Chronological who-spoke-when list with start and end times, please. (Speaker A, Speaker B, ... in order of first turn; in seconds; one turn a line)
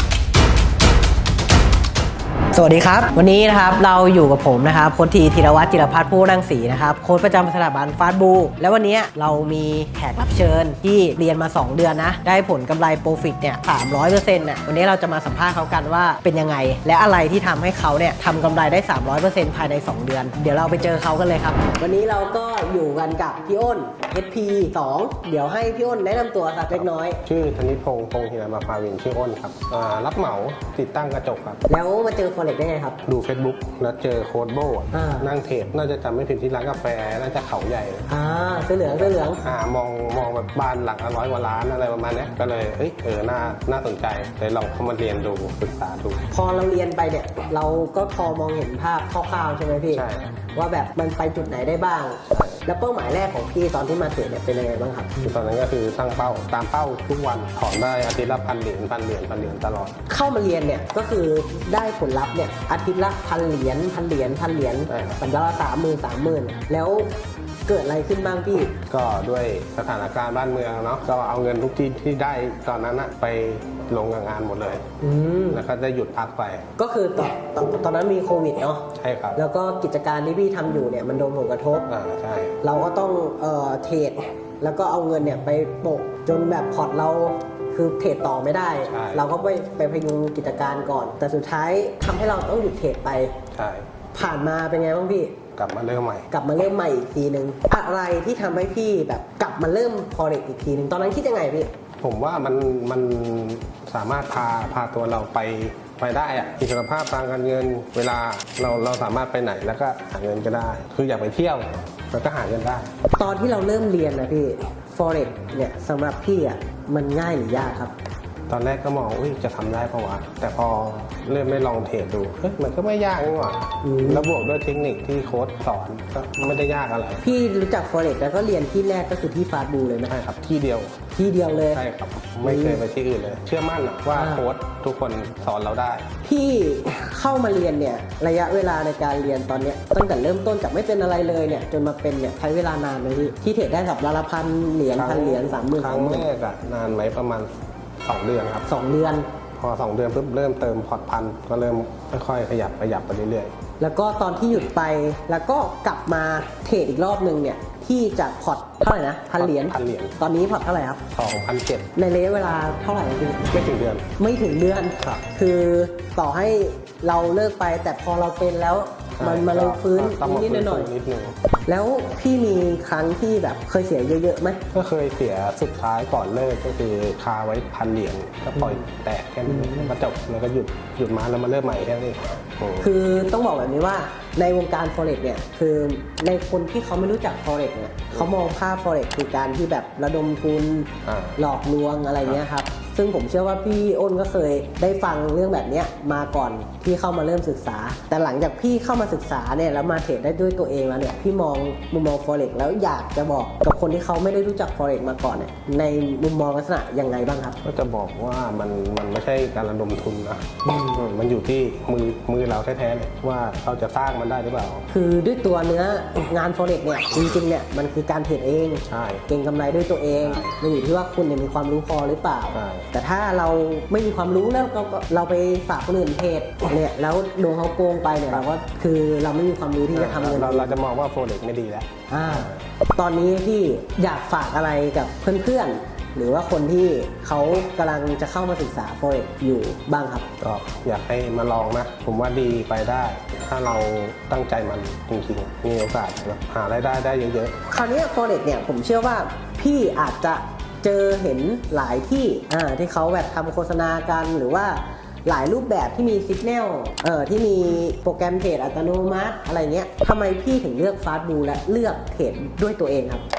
Speaker A: 2.5-27.2
Speaker B: 27.2-31.6
Speaker A: 31.7-33.0
Speaker B: 33.0-38.1
Speaker A: 34.9-35.3
Speaker A: 38.1-39.4
Speaker B: 39.4-46.2
Speaker A: 46.3-50.0
Speaker B: 49.9-50.3
Speaker A: 50.5-55.2
Speaker B: 55.2-60.0
Speaker A: 60.1-67.1
Speaker B: 64.9-65.2
Speaker A: 67.7-68.7
Speaker B: 68.9-74.8
Speaker A: 75.0-75.6
Speaker B: 75.5-76.7
Speaker A: 76.8-81.8
Speaker B: 78.9-79.4
Speaker B: 81.9-82.5
Speaker A: 82.6-93.4
Speaker B: 88.9-89.3
Speaker B: 93.5-93.9
Speaker A: 94.1-95.4
Speaker B: 95.6-96.3
Speaker A: 96.3-101.7
Speaker B: 102.0-112.9
Speaker A: 113.1-117.9
Speaker B: 118.5-127.2
Speaker A: 123.8-124.3
Speaker A: 127.2-130.1
Speaker B: 130.1-130.9
Speaker A: 131.1-131.8
Speaker B: 131.7-136.1
Speaker A: 132.4-132.8
Speaker A: 134.1-134.4
Speaker A: 136.2-146.3
Speaker B: 144.9-147.5
Speaker B: 148.0-148.7
Speaker A: 148.7-149.3
Speaker B: 149.6-153.5
Speaker A: 153.8-161.0
Speaker B: 159.4-160.2
Speaker B: 161.1-161.9
Speaker A: 161.9-170.9
Speaker B: 163.5-164.1
Speaker B: 169.2-171.3
Speaker A: 171.7-174.6
Speaker B: 174.7-182.9
Speaker A: 179.5-179.9
Speaker A: 182.8-207.6
Speaker B: 191.0-191.4
Speaker B: 207.6-214.8
Speaker A: 210.7-210.9
Speaker A: 214.9-230.8
Speaker B: 218.9-219.2
Speaker B: 220.2-220.5
Speaker B: 222.5-222.9
Speaker B: 229.9-232.6
Speaker A: 232.1-240.3
Speaker B: 240.4-247.6
Speaker A: 247.7-263.2